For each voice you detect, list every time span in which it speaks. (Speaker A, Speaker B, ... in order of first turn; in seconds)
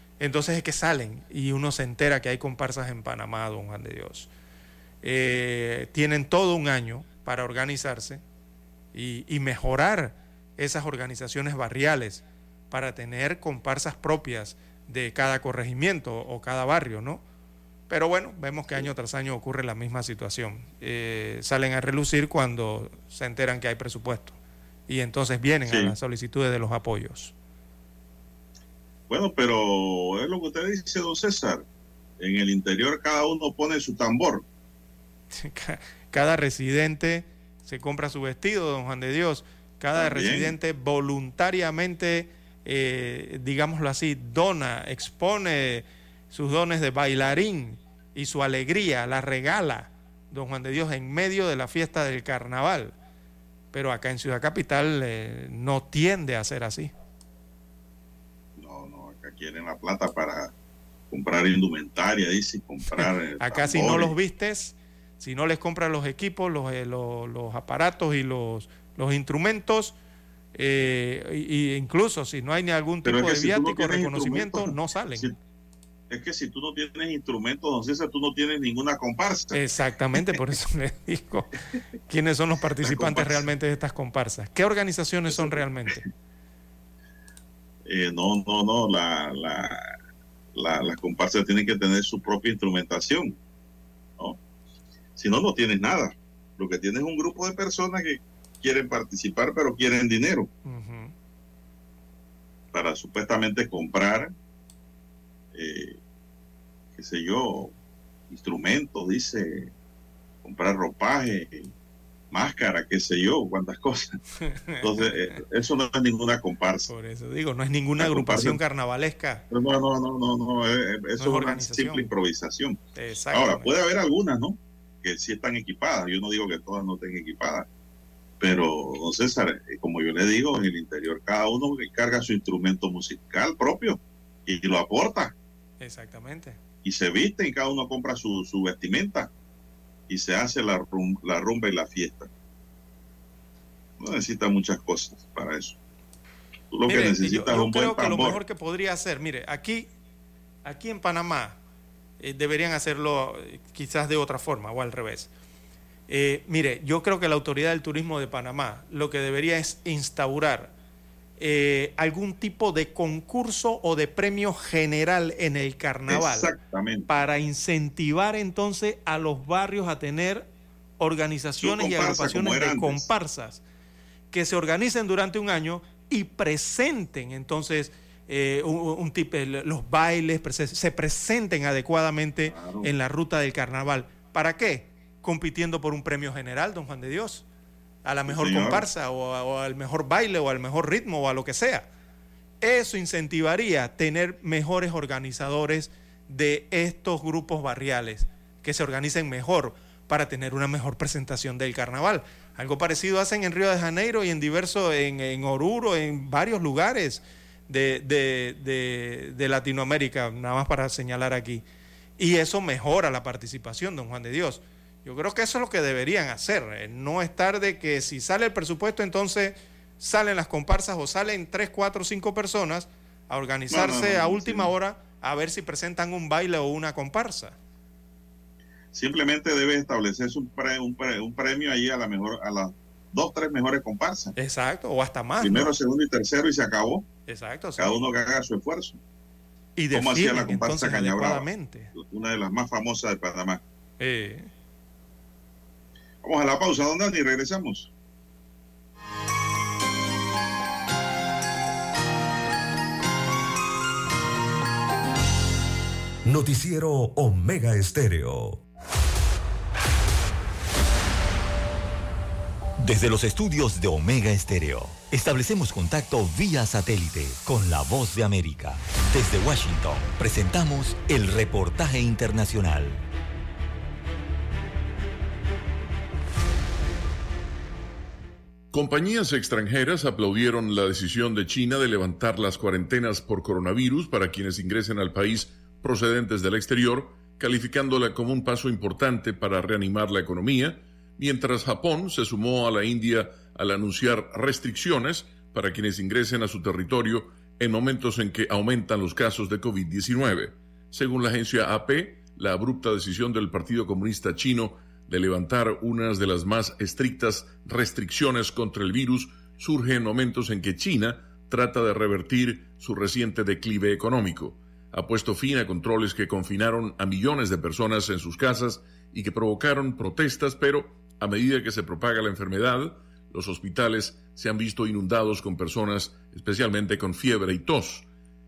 Speaker A: 0.2-4.3, 5.0-8.2, 8.9-17.2, 17.9-24.4, 24.9-27.3, 35.3-52.9, 53.7-56.9, 63.0-70.0, 70.6-75.3, 79.5-81.5, 82.1-86.0, 100.7-101.1, 114.4-115.2, 116.9-119.4, 121.2-122.1, 123.0-123.7, 135.8-136.6, 146.9-149.9, 150.6-151.6, 152.2-155.3, 156.1-160.7, 161.4-166.5, 167.1-170.5, 171.0-173.6, 174.3-187.4, 188.0-191.9, 192.6-211.6, 212.2-227.6, 234.4-235.7, 237.3-238.0, 239.8-241.9, 244.0-244.5
Speaker B: 25.7-25.9, 29.1-31.6, 32.2-34.5, 40.0-40.5, 58.6-60.5, 61.1-64.1, 73.0-75.3, 76.1-79.6, 82.8-83.5, 85.3-86.0, 87.9-89.9, 90.6-93.4, 95.2-100.5, 102.7-104.3, 105.5-106.0, 107.0-107.7, 108.3-109.7, 110.4-111.7, 112.3-114.2, 114.8-116.9, 118.0-118.6, 119.5-122.8, 123.3-127.7, 128.4-135.3, 136.8-139.3, 140.1-142.3, 144.0-145.8, 146.7-148.4, 166.1-167.1, 171.6-173.1, 182.5-182.9, 188.3-188.8, 223.7-224.7, 228.9-234.3, 235.4-237.1, 237.8-239.0, 239.9-243.6, 246.2-247.9
Speaker C: 256.2-258.6
Speaker D: 262.8-273.0
Speaker E: 278.7-328.1